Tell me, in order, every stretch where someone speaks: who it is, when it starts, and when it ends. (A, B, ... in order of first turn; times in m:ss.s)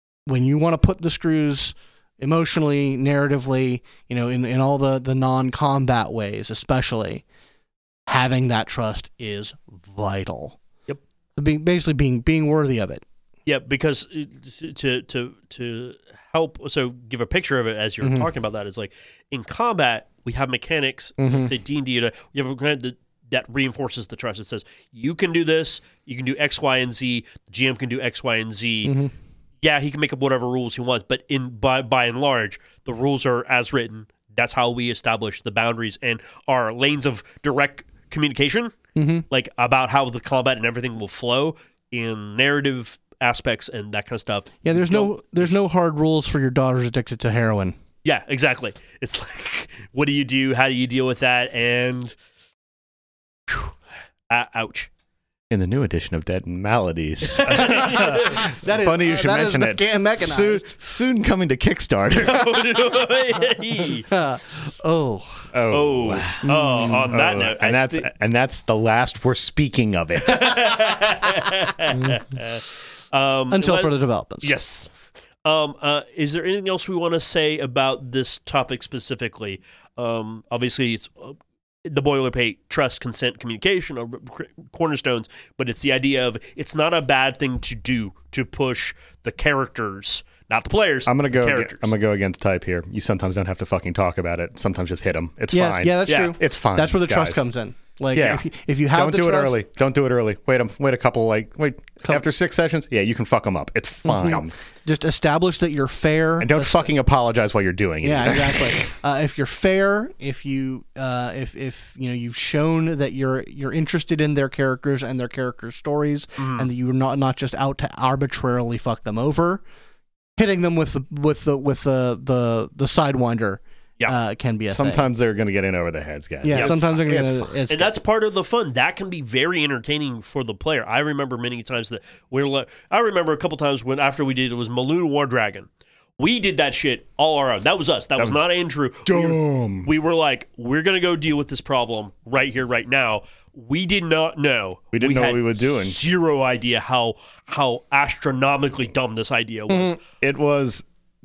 0:00.3-0:07.2 A
0:08.1-0:10.6 A
0:11.4-0:13.0 A
0:13.4-0:28.9 B
0:18.0-0:18.3 A
0:21.2-0:21.5 A
0:28.8-0:29.1 A
0:29.6-0:38.7 B
0:38.9-0:39.2 A
0:39.3-0:45.5 B
0:44.6-0:47.8 A
0:48.0-0:52.1 B
0:54.3-0:54.9 B
0:55.5-1:03.0 C
0:57.3-0:58.4 B
0:57.6-1:00.7 A
1:02.2-1:04.1 B
1:04.1-1:05.5 A
1:05.5-1:06.5 C
1:05.7-1:08.1 B
1:06.4-1:07.1 A
1:07.1-1:10.9 C
1:10.2-1:14.9 B
1:11.9-1:12.2 A
1:13.5-1:14.5 A
1:15.4-1:31.9 B
1:31.0-1:37.4 C
1:35.5-1:39.5 A
1:36.1-1:36.3 B
1:38.1-1:44.5 C
1:44.0-1:46.9 A
1:46.4-1:48.8 C
1:48.0-1:59.6 A
1:56.4-1:56.7 B
2:00.4-2:05.0 A
2:04.7-2:07.5 C
2:06.4-2:07.9 A
2:07.7-2:15.7 B
2:16.2-2:30.0 B
2:19.0-2:19.9 C
2:24.9-2:26.0 C
2:29.7-2:30.0 A
2:30.2-2:30.8 C